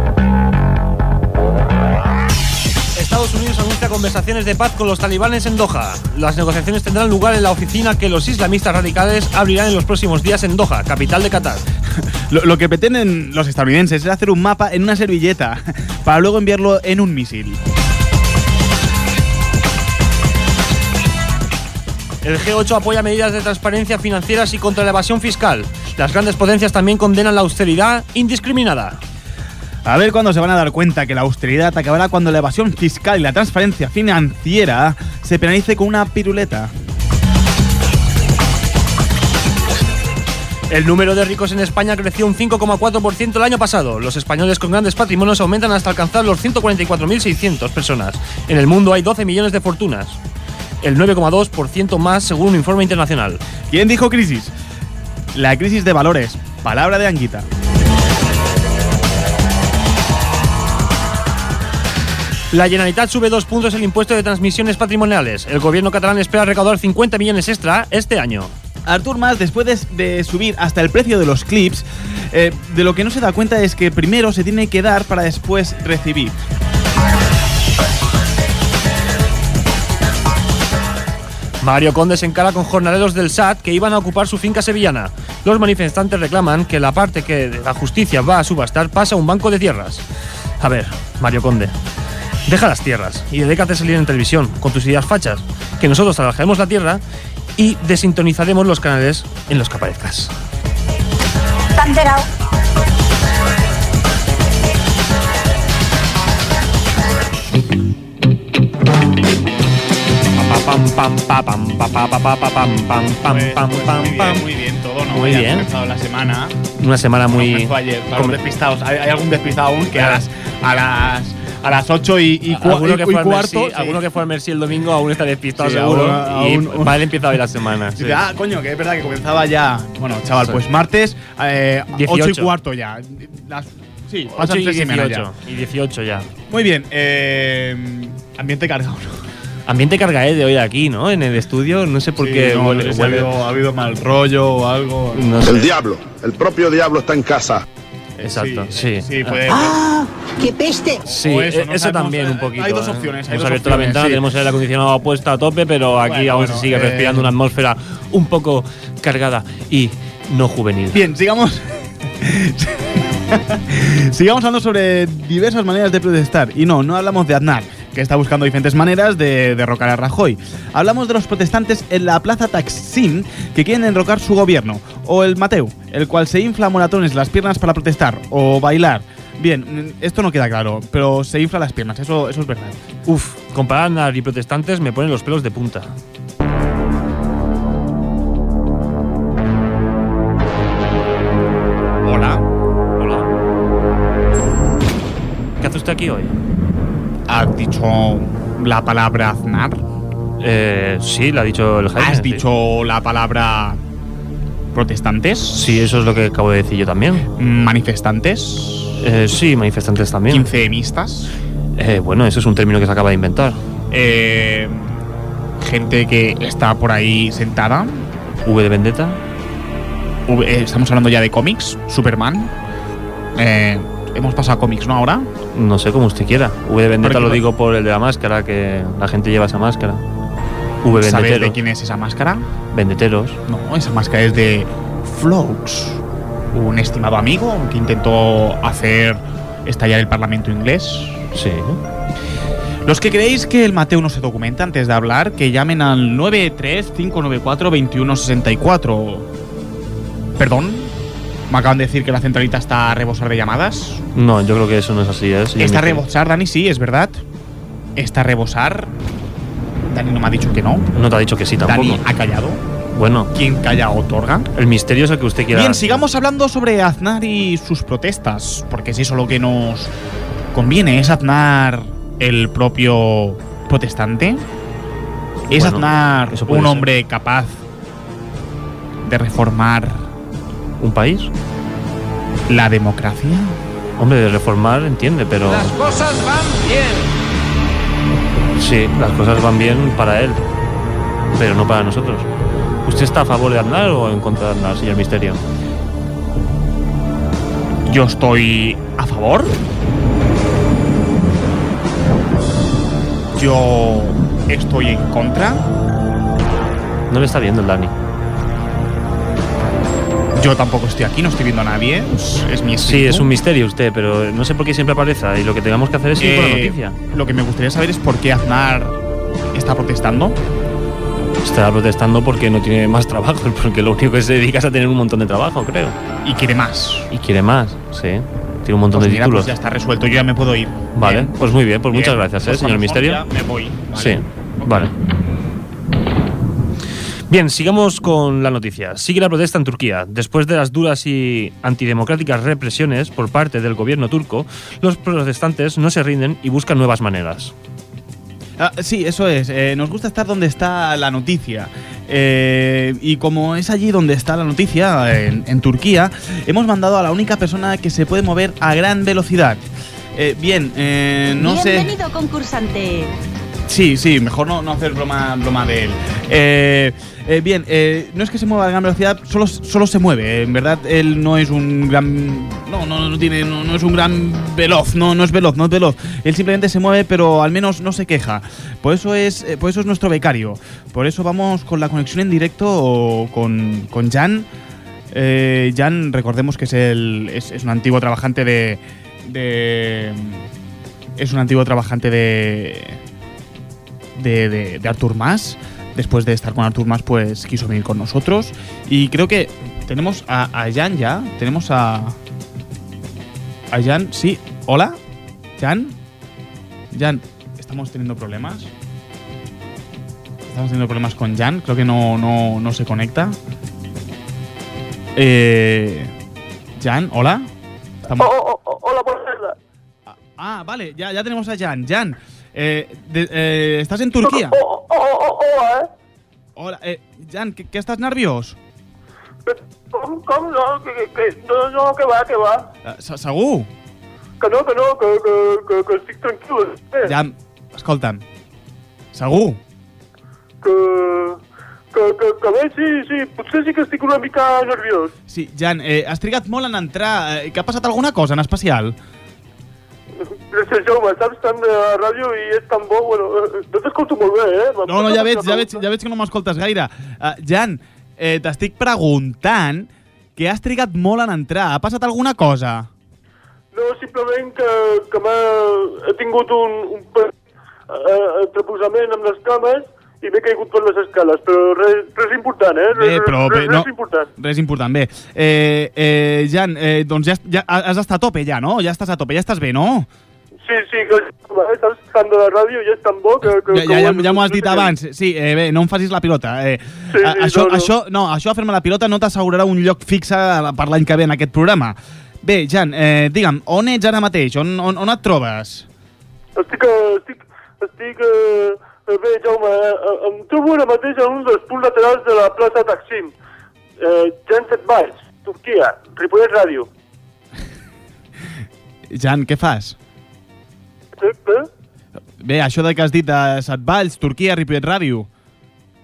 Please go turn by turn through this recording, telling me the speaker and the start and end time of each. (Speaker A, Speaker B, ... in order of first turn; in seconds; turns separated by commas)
Speaker A: 3.0-11.6, Speaker B: 12.3-17.6, Speaker A: 22.2-29.0, Speaker B: 29.9-36.7, Speaker A: 40.7-50.2, Speaker A: 50.8-53.4, Speaker B: 53.7-54.5, Speaker B: 55.3-57.5, Speaker A: 62.5-68.5, Speaker B: 68.9-76.4, Speaker A: 81.6-90.0, Speaker A: 90.6-91.7, Speaker A: 92.5-97.0, Speaker A: 97.6-100.3, Speaker C: 101.8-102.3, Speaker A: 110.4-114.4, Speaker B: 113.3-116.6, Speaker A: 115.1-115.7, Speaker A: 116.8-118.4, Speaker B: 117.3-124.0, Speaker A: 120.0-120.2, Speaker A: 122.5-128.2, Speaker B: 125.5-127.4, Speaker B: 127.9-135.3, Speaker A: 131.9-132.6, Speaker A: 134.3-136.3, Speaker B: 136.5-139.3, Speaker A: 139.7-143.3, Speaker B: 142.2-145.3, Speaker A: 145.2-145.7, Speaker D: 145.4-147.6, Speaker B: 148.2-149.8, Speaker A: 148.2-149.4, Speaker A: 151.0-161.0, Speaker B: 151.1-154.3, Speaker B: 156.0-157.3, Speaker B: 160.9-182.8, Speaker A: 183.1-185.9, Speaker B: 192.0-192.4, Speaker A: 193.0-193.3, Speaker A: 195.6-196.4, Speaker B: 197.3-199.8, Speaker A: 200.4-202.4, Speaker B: 202.0-203.8, Speaker B: 204.7-205.9, Speaker A: 205.6-207.3, Speaker B: 207.4-209.0, Speaker A: 209.0-210.5, Speaker B: 210.3-211.3, Speaker A: 211.8-213.6, Speaker B: 213.9-215.0, Speaker B: 215.6-218.1, Speaker A: 218.4-219.2, Speaker B: 220.3-222.5, Speaker B: 223.3-225.3, Speaker A: 225.5-230.0, Speaker B: 227.0-227.4, Speaker A: 230.8-231.6, Speaker B: 230.9-232.5, Speaker A: 232.7-233.4, Speaker B: 233.5-236.0, Speaker B: 236.5-241.3, Speaker A: 241.3-241.8, Speaker B: 242.8-249.3, Speaker B: 250.4-250.9, Speaker B: 251.5-254.0, Speaker A: 254.2-256.0, Speaker B: 255.6-257.2, Speaker B: 258.0-258.9, Speaker B: 259.9-260.9, Speaker A: 260.9-262.0, Speaker B: 261.6-262.6, Speaker A: 262.9-263.3, Speaker B: 263.3-264.5, Speaker A: 264.6-266.0, Speaker B: 265.5-269.9, Speaker B: 270.5-274.5, Speaker A: 275.5-276.9, Speaker B: 275.5-277.6, Speaker B: 279.0-280.1, Speaker A: 280.8-281.3, Speaker B: 282.5-283.6, Speaker A: 284.0-287.0, Speaker A: 288.6-290.4, Speaker A: 291.4-292.3, Speaker A: 292.9-295.4, Speaker B: 297.9-299.6, Speaker B: 303.3-305.7, Speaker A: 307.1-307.9, Speaker B: 310.4-313.3, Speaker A: 312.8-317.0, Speaker B: 316.2-319.0, Speaker B: 319.5-320.4, Speaker A: 321.4-326.0, Speaker B: 326.2-327.1, Speaker A: 327.1-329.5, Speaker B: 328.9-331.4, Speaker A: 330.9-333.2, Speaker B: 331.9-334.9, Speaker A: 333.9-334.9, Speaker A: 337.3-347.5, Speaker B: 348.6-359.6, Speaker B: 360.1-361.9, Speaker C: 361.4-363.1, Speaker B: 363.7-384.5, Speaker B: 385.1-390.5, Speaker B: 391.2-393.0, Speaker B: 394.1-402.2, Speaker B: 403.7-405.0, Speaker B: 405.6-406.0, Speaker B: 406.9-408.7, Speaker B: 410.4-413.4, Speaker B: 415.2-416.1, Speaker B: 416.8-417.5, Speaker B: 418.1-418.3, Speaker E: 418.2-419.6, Speaker B: 420.1-424.6, Speaker E: 424.2-425.9, Speaker B: 426.6-428.6, Speaker E: 429.5-432.7, Speaker B: 432.9-433.7, Speaker E: 434.4-437.1, Speaker B: 437.0-438.2, Speaker B: 439.1-439.6, Speaker E: 440.6-441.4, Speaker E: 441.9-445.1, Speaker B: 445.3-449.0, Speaker E: 450.2-455.8, Speaker B: 454.9-462.9, Speaker E: 463.7-467.3, Speaker E: 467.9-474.3, Speaker B: 472.9-480.1, Speaker E: 480.6-484.9, Speaker B: 483.6-495.9, Speaker E: 487.1-487.9, Speaker E: 496.6-503.3, Speaker E: 504.0-506.9, Speaker B: 509.1-510.0, Speaker E: 511.2-511.7, Speaker B: 512.4-515.3